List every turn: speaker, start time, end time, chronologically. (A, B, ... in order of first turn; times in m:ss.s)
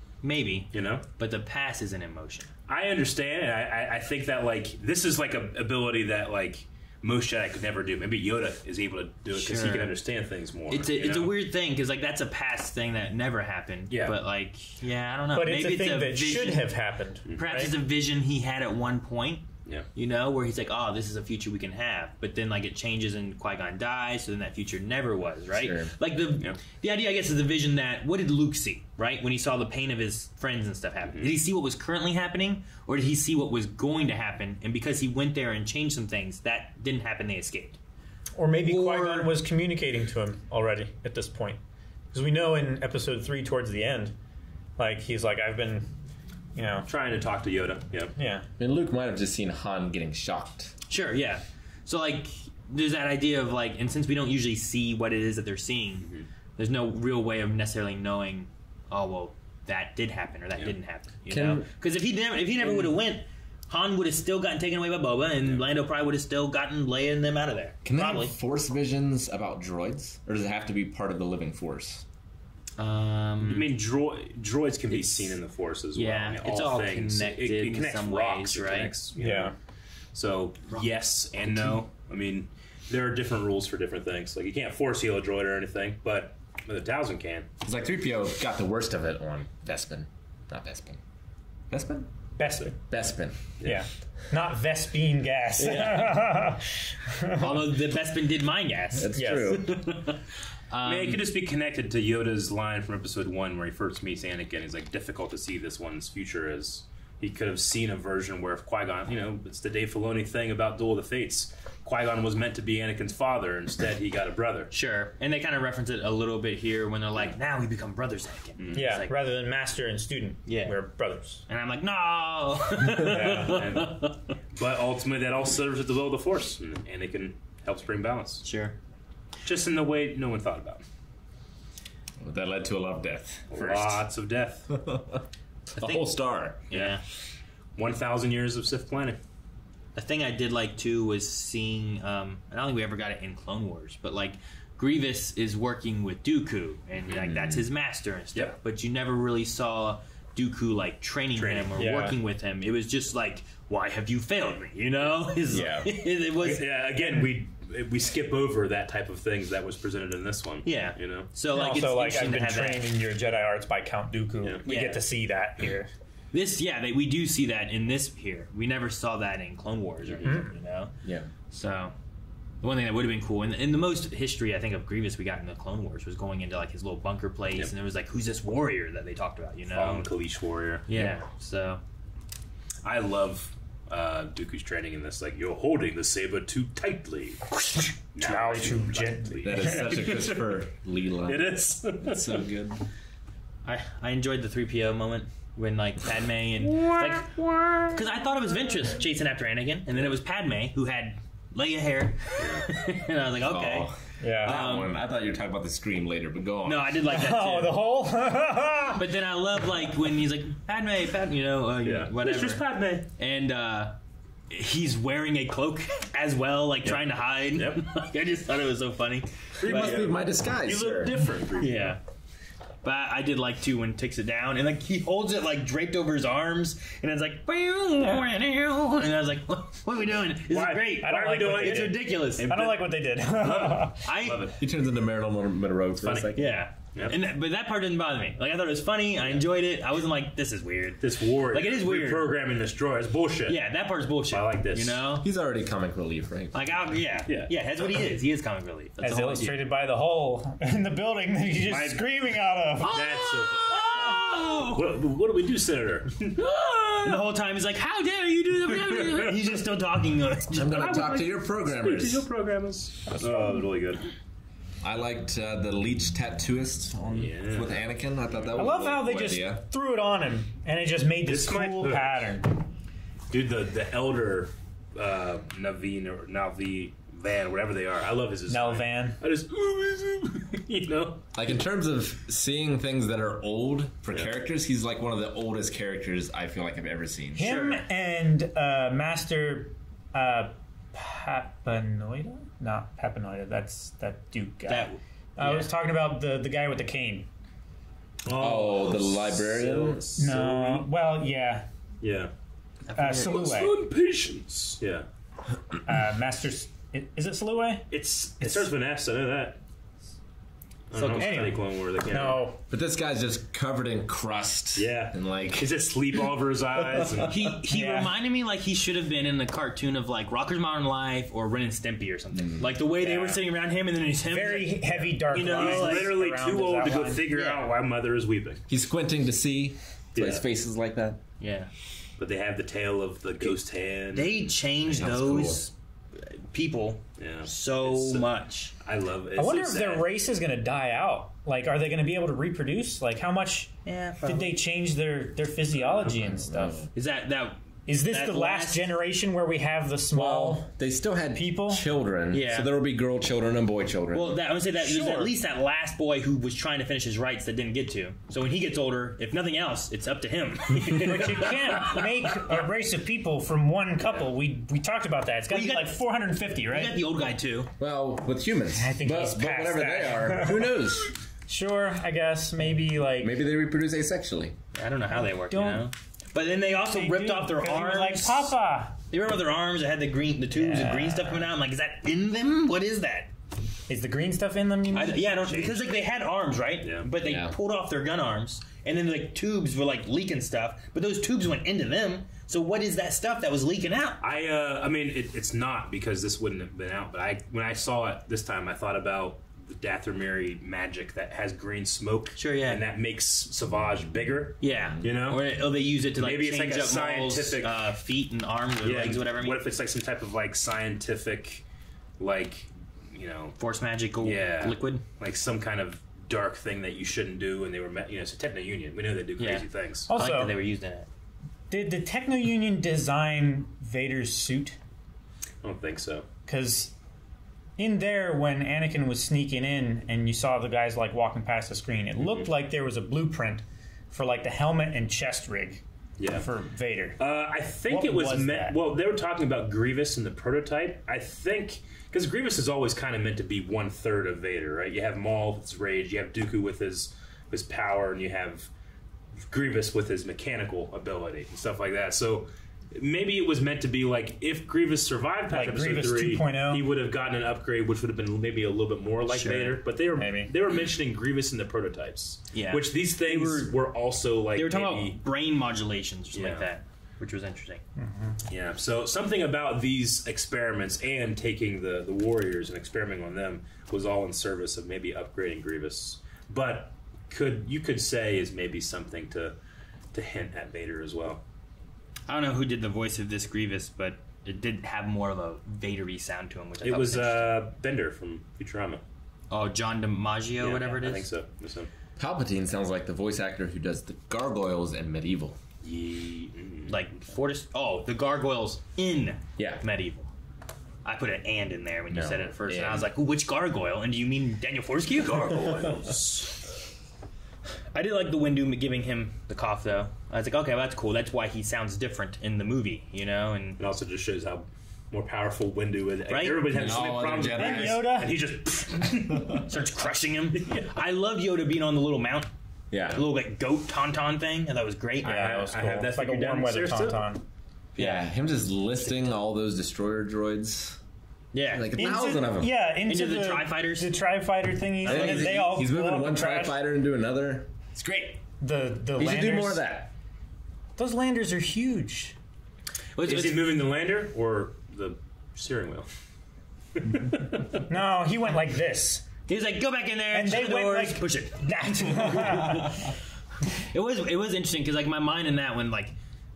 0:00.2-0:02.5 A
0:00.7-0:01.0 B
0:02.7-0:11.4 B
0:09.3-0:10.0 A
0:10.7-0:16.7 A
0:13.9-0:14.2 B
0:15.3-0:17.7 C
0:17.4-0:37.8 A
0:25.5-0:25.9 D
0:38.4-0:41.6 C
0:38.6-0:39.3 A
0:42.1-0:44.2 C
0:44.8-0:45.9 C
0:46.6-0:46.9 C
0:46.9-0:48.1 B
0:48.2-0:48.5 C
0:48.6-0:50.7 D
0:50.9-1:08.3 A
1:01.3-1:01.7 D
1:02.6-1:02.9 B
1:07.8-1:12.0 D
1:12.8-1:13.7 A
1:13.5-1:19.5 B
1:14.9-1:15.4 A
1:16.0-1:18.9 A
1:19.2-1:19.6 C
1:20.1-1:27.5 B
1:21.4-1:21.8 A
1:27.6-1:31.0 D
1:31.7-1:32.2 D
1:32.4-1:32.7 C
1:32.9-1:33.5 D
1:33.6-1:37.7 C
1:37.4-1:40.1 A
1:39.0-1:39.7 D
1:39.2-1:39.6 C
1:40.7-1:41.2 A
1:40.8-1:54.7 B
1:54.7-1:59.1 A
1:58.6-1:58.8 B
1:58.7-2:01.4 C
2:00.5-2:00.8 A
2:01.5-2:04.1 A
2:03.0-2:03.6 C
2:03.1-2:08.4 B
2:08.4-2:08.8 A
2:09.4-2:10.8 B
2:12.2-2:14.0 D
2:13.5-2:14.7 B
2:14.7-2:15.2 D
2:15.7-2:16.6 D
2:15.8-2:16.1 A
2:16.7-2:17.0 A
2:16.7-2:17.0 B
2:17.8-2:19.2 B
2:20.0-2:36.7 A
2:27.2-2:27.6 D
2:31.4-2:31.8 B
2:31.8-2:32.2 C
2:35.5-2:35.9 D
2:36.4-2:41.3 B
2:37.0-2:37.3 C
2:40.6-2:42.9 A
2:41.5-2:45.9 C
2:44.7-2:45.0 A
2:46.3-2:50.9 A
2:50.2-2:50.5 C
2:51.0-2:51.3 D
2:51.5-2:51.9 A
2:52.6-3:00.1 A
2:59.7-3:00.9 B
3:00.9-3:01.8 A
3:02.8-3:07.4 B
3:07.6-3:10.1 C
3:08.2-3:10.4 B
3:09.4-3:12.8 D
3:11.2-3:12.4 B
3:13.6-3:17.3 A
3:16.6-3:18.0 B
3:17.9-3:23.9 A
3:22.4-3:22.7 B
3:23.4-3:27.0 D
3:24.2-3:24.6 C
3:24.4-3:24.9 A
3:26.6-3:27.8 A
3:27.1-3:29.0 C
3:29.0-3:32.6 A
3:31.8-3:33.1 B
3:33.2-3:34.0 A
3:34.5-3:40.0 A
3:36.8-3:37.8 B
3:39.6-3:42.0 B
3:39.7-3:41.2 D
3:41.6-3:42.0 A
3:42.8-3:52.6 A
3:50.5-3:54.6 B
3:51.0-3:54.1 C
3:54.0-3:54.5 A
3:54.6-3:56.5 D
3:56.0-3:56.3 B
3:56.4-4:02.4 A
3:56.9-3:57.2 B
4:01.0-4:03.6 B
4:03.5-4:05.3 A
4:04.3-4:05.0 B
4:05.2-4:06.7 D
4:06.5-4:09.6 A
4:07.3-4:08.2 B
4:09.0-4:13.3 C
4:11.7-4:12.0 B
4:12.8-4:14.8 A
4:12.9-4:17.3 B
4:17.0-4:21.2 A
4:18.7-4:19.5 B
4:20.5-4:22.2 D
4:20.7-4:24.0 B
4:24.8-4:29.6 D
4:27.1-4:29.2 B
4:28.6-4:32.5 C
4:31.3-4:32.3 B
4:33.3-4:41.3 B
4:38.5-4:39.2 C
4:41.4-4:47.5 D
4:47.4-4:57.3 C
4:47.4-4:47.8 A
4:54.7-4:55.7 A
4:58.3-5:00.9 B
4:58.3-5:00.0 D
5:00.2-5:01.7 C
5:02.0-5:02.3 B
5:02.9-5:03.3 A
5:03.0-5:03.8 C
5:03.1-5:05.0 B
5:05.9-5:07.9 C
5:07.9-5:09.6 B
5:08.4-5:08.7 C
5:10.9-5:12.4 B
5:10.9-5:11.5 A
5:11.1-5:12.6 C
5:12.7-5:15.7 D
5:14.8-5:17.5 B
5:17.3-5:26.2 A
5:17.7-5:18.2 C
5:22.3-5:22.8 D
5:23.0-5:23.4 B
5:24.2-5:27.3 C
5:25.2-5:28.6 B
5:27.3-5:27.7 A
5:28.7-5:31.2 D
5:30.2-5:30.4 B
5:31.4-5:31.7 A
5:32.2-5:34.5 B
5:34.1-5:38.7 A
5:34.9-5:35.6 D
5:37.2-5:38.3 B
5:38.8-5:40.1 B
5:39.4-5:43.7 C
5:43.8-5:44.6 A
5:44.2-5:46.9 C
5:45.8-5:46.2 B
5:46.3-5:46.9 D
5:46.9-5:48.9 A
5:47.9-5:50.7 C
5:50.1-5:54.4 D
5:51.3-5:51.8 C
5:52.3-5:52.7 A
5:54.1-6:02.0 A
5:54.8-5:55.3 C
6:01.0-6:07.0 C
6:05.5-6:06.0 A
6:06.6-6:07.7 A
6:07.8-6:11.1 D
6:08.8-6:10.8 C
6:11.5-6:13.4 C
6:13.2-6:14.6 D
6:14.8-6:18.5 A
6:15.1-6:15.9 C
6:16.6-6:19.0 C
6:19.1-6:23.3 A
6:20.5-6:21.5 C
6:23.9-6:25.4 C
6:24.9-6:34.2 A
6:25.4-6:26.1 B
6:26.8-6:27.1 B
6:27.2-6:27.6 D
6:34.2-6:45.4 B
6:42.4-6:42.8 A
6:44.6-6:49.6 A
6:46.2-6:47.8 B
6:48.8-6:51.6 B
6:52.2-6:53.6 B
6:53.6-6:55.0 A
6:54.2-7:00.1 B
6:59.4-7:01.1 A
7:00.1-7:00.6 C
7:01.7-7:04.8 C
7:05.6-7:06.3 B
7:06.5-7:06.9 C
7:07.8-7:17.2 C
7:12.2-7:12.5 B
7:16.2-7:16.5 B
7:17.2-7:28.7 B
7:17.9-7:18.8 C
7:29.5-7:45.2 B
7:35.5-7:36.9 C
7:39.3-7:39.8 A
7:40.2-7:40.5 C
7:42.5-7:43.8 A
7:44.6-7:47.8 A
7:46.4-7:46.7 B
7:48.0-7:48.4 C
7:48.5-7:59.6 B
8:00.1-8:01.4 B
8:02.3-8:07.6 A
8:06.8-8:09.0 B
8:09.5-8:11.3 A
8:10.6-8:11.9 B
8:12.2-8:15.6 D
8:15.8-8:17.0 B
8:16.9-8:20.3 A
8:19.6-8:19.8 D
8:21.0-8:25.7 A
8:22.1-8:23.1 D
8:25.2-8:26.5 B
8:25.4-8:26.1 D
8:27.9-8:33.8 A
8:33.8-8:39.6 B
8:36.3-8:36.7 A
8:36.7-8:38.2 D
8:37.5-8:38.4 C
8:39.7-8:42.5 A
8:40.5-8:40.9 B
8:42.9-8:43.3 D
8:43.1-8:45.7 A
8:45.2-8:47.4 C
8:45.2-8:47.2 B
8:48.0-8:48.3 A
8:48.0-8:51.0 D
8:49.0-8:49.3 A
8:51.5-8:52.1 A
8:51.7-8:52.7 D
8:52.0-8:56.8 C
8:53.1-8:54.1 A
8:55.0-8:55.8 A
8:55.0-8:58.4 D
8:58.6-8:59.8 C
8:59.2-9:00.1 D
9:01.0-9:02.4 C
9:03.2-9:03.6 A
9:03.2-9:06.1 B
9:07.0-9:07.8 B
9:07.9-9:09.3 C
9:09.5-9:12.7 A
9:10.3-9:13.1 C
9:13.9-9:16.1 A